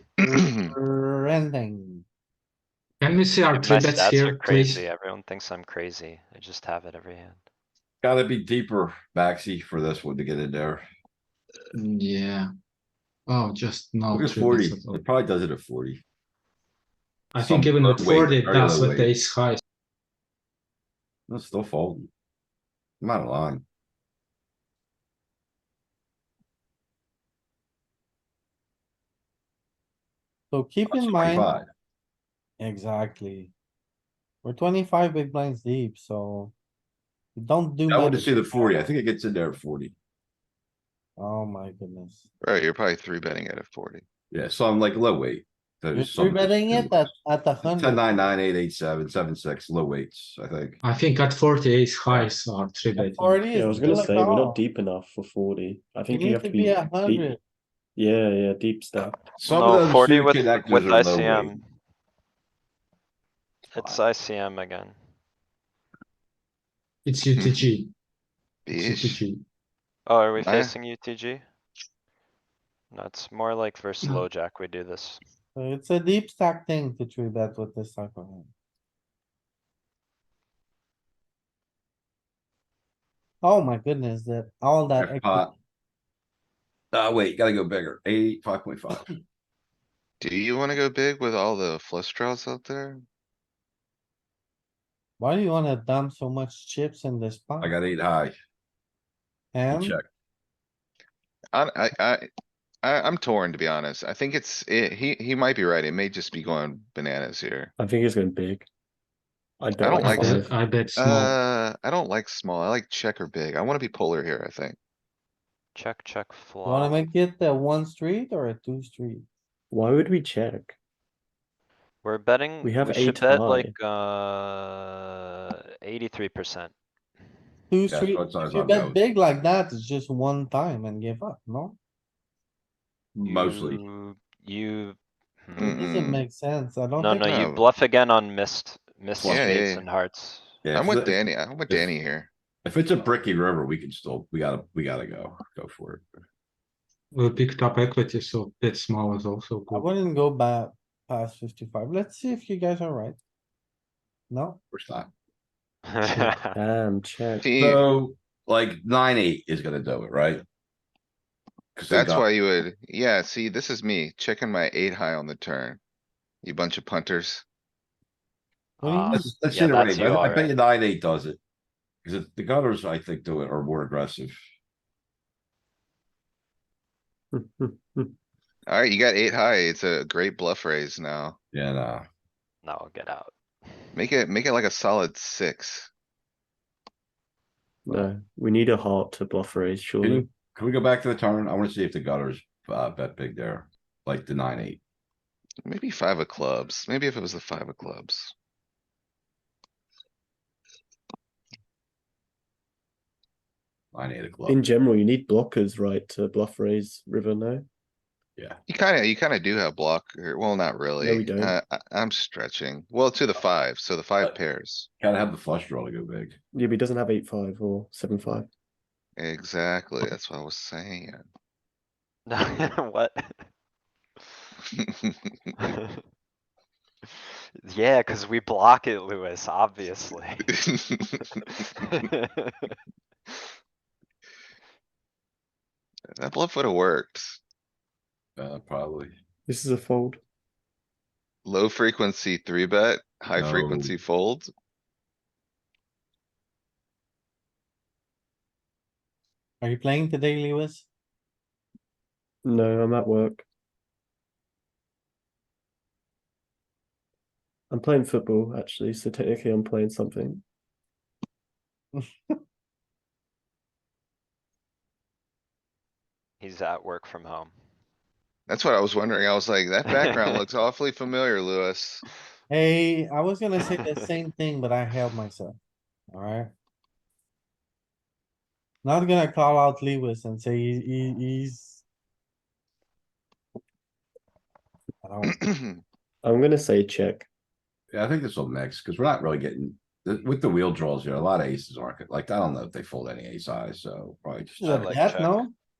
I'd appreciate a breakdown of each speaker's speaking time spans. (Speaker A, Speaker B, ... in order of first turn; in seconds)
Speaker A: 0.2-2.0, 30.5-31.5, 32.6-33.5, 34.4-36.5, 37.3-38.8, 41.2-42.3, 45.9-48.2, 53.0-54.6, 56.1-57.4, 75.5-78.5, 83.4-85.5, 95.2-97.8, 99.5-100.0, 116.6-119.2, 127.7-131.8, 135.6-137.4, 149.7-153.2, 154.3-154.6, 168.8-169.3, 249.6-250.9, 261.9-262.4, 272.5-275.6, 276.1-276.5, 278.8-281.8, 285.0-285.4, 294.6-295.5
Speaker B: 0.2-0.7, 42.4-44.0, 67.3-67.7, 68.7-69.2, 70.4-70.7, 90.2-93.0, 101.5-102.3, 102.8-107.7, 109.8-110.4, 111.0-114.8, 135.6-136.2, 137.2-137.7, 139.2-139.8, 140.7-142.3, 157.4-157.8, 161.9-165.8, 166.4-167.4, 178.7-181.4, 183.9-185.9, 195.6-198.3, 208.7-214.9, 219.2-221.3, 224.8-225.3, 230.5-231.4, 236.1-237.4, 241.4-244.5, 268.5-272.0, 285.3-285.8
Speaker C: 3.0-4.9, 11.7-12.5, 13.3-15.0, 17.3-19.6, 50.8-54.1, 67.0-67.9, 68.7-69.4, 109.9-111.3, 147.1-149.9, 156.0-156.3
Speaker D: 3.5-7.4, 59.4-61.7, 63.7-64.9, 70.0-71.4, 72.9-75.2, 115.7-117.0, 122.0-126.7, 133.3-135.8, 137.0-140.5, 155.9-156.5, 168.8-170.5, 182.6-183.3, 222.3-223.4, 225.6-226.0, 227.6-230.5, 231.4-232.8, 266.4-267.5, 269.9-270.4, 294.6-295.4
Speaker E: 8.0-10.8, 14.1-16.0, 17.4-19.1, 21.3-22.1, 23.0-23.6, 30.9-31.7, 37.9-39.9, 44.3-47.1, 47.6-50.8, 59.3-61.6, 63.7-64.0, 85.0-85.5, 86.9-89.1, 97.6-98.3, 99.7-100.0, 127.9-129.0, 133.2-133.8, 139.2-139.5, 140.6-141.9, 142.6-146.1, 154.7-155.1, 157.5-160.4, 161.7-162.2, 169.1-171.4, 172.0-174.4, 181.5-182.0, 190.0-194.8, 203.9-204.6, 215.0-216.4, 238.4-239.2, 243.3-244.0, 287.9-294.8
Speaker F: 53.5-57.4, 58.0-59.3, 107.8-108.7, 109.6-110.5, 119.7-120.8, 122.6-123.7, 156.5-157.5, 177.3-178.1, 187.8-190.3, 204.5-207.7, 211.0-211.6, 216.5-218.5, 239.5-240.2, 252.4-253.4, 257.7-260.4, 286.2-287.3